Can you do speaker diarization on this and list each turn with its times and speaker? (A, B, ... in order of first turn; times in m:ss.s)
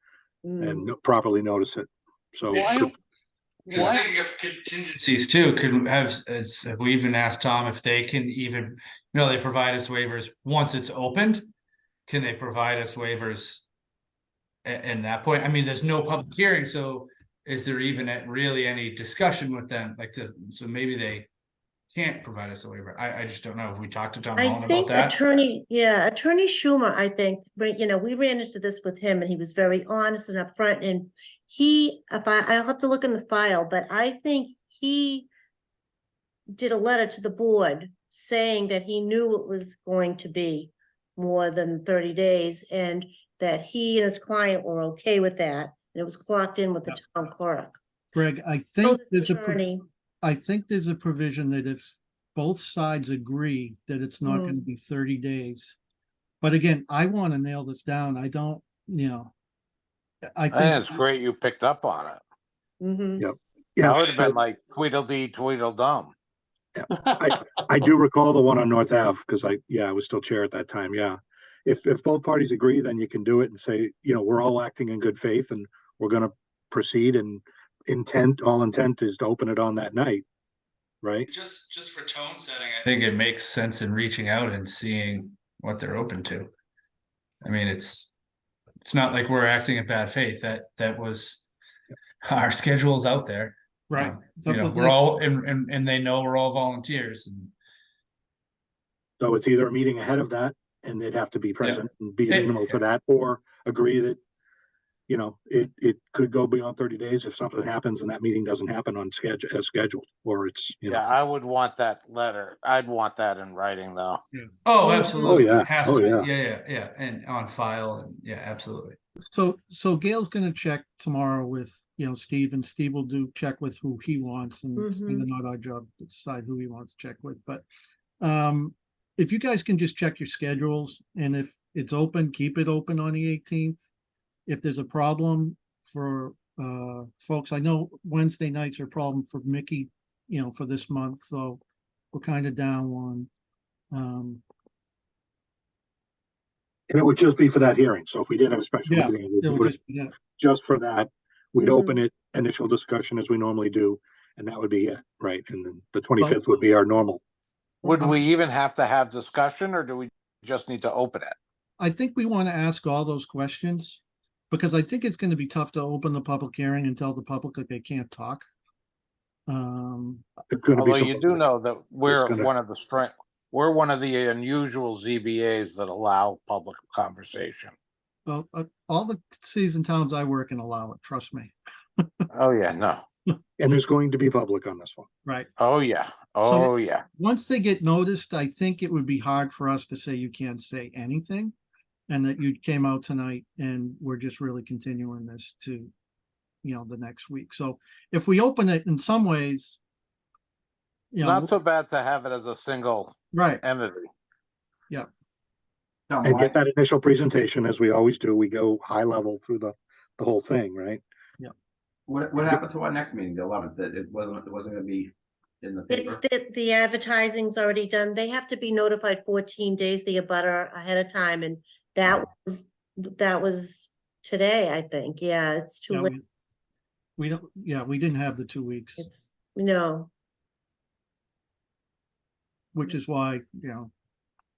0:00.4-0:00.9 A
0:00.6-0:02.9 B
0:02.5-0:02.9 C
0:03.6-0:04.1 C
0:03.7-0:11.5 D
0:12.1-0:13.6 D
0:14.6-0:21.3 D
0:21.9-0:25.2 D
0:24.4-0:35.3 A
0:36.5-0:47.8 A
0:48.1-0:49.6 E
0:48.8-0:49.8 A
0:50.2-0:55.7 E
0:54.2-0:54.6 A
0:56.4-0:59.3 E
1:00.3-1:01.0 E
1:00.5-1:02.2 F
1:02.8-1:03.2 A
1:03.2-1:04.3 B
1:03.8-1:06.1 F
1:06.8-1:20.2 B
1:21.0-1:21.3 B
1:21.3-1:26.5 D
1:27.4-1:28.1 D
1:28.8-1:31.4 D
1:32.2-1:37.5 D
1:33.9-1:35.0 E
1:39.2-1:44.2 B
1:41.6-1:42.8 D
1:45.1-1:51.1 B
1:50.8-1:54.2 F
1:54.3-1:59.0 D
1:54.8-1:55.4 A
1:55.2-1:56.3 B
1:59.3-2:07.6 E
2:04.8-2:05.3 A
2:08.2-2:13.8 E
2:14.5-2:21.6 E
2:22.1-2:23.3 E
2:23.9-2:24.4 E
2:26.9-2:37.2 B
2:28.8-2:30.1 E
2:31.6-2:32.0 A
2:36.2-2:36.6 E
2:37.8-2:41.4 F
2:37.9-2:38.1 E
2:41.8-2:44.0 E
2:44.5-2:48.4 E
2:49.5-2:50.2 E
2:50.5-2:51.4 B
2:50.7-2:57.7 F
2:52.0-2:52.5 B
2:58.3-3:02.2 E
3:02.3-3:03.0 F
3:03.6-3:05.1 B
3:05.2-3:05.5 E
3:05.6-3:07.0 F
3:06.4-3:11.5 E
3:12.1-3:15.9 E
3:16.6-3:19.8 E
3:21.1-3:21.5 E
3:21.2-3:24.1 F
3:23.3-3:23.6 E
3:26.1-3:26.5 C
3:26.2-3:31.0 B
3:32.1-3:35.1 C
3:35.6-3:36.2 C
3:35.9-3:46.1 A
3:45.9-3:46.2 E
3:47.2-3:49.1 E
3:49.0-3:50.1 A
3:52.7-3:53.9 E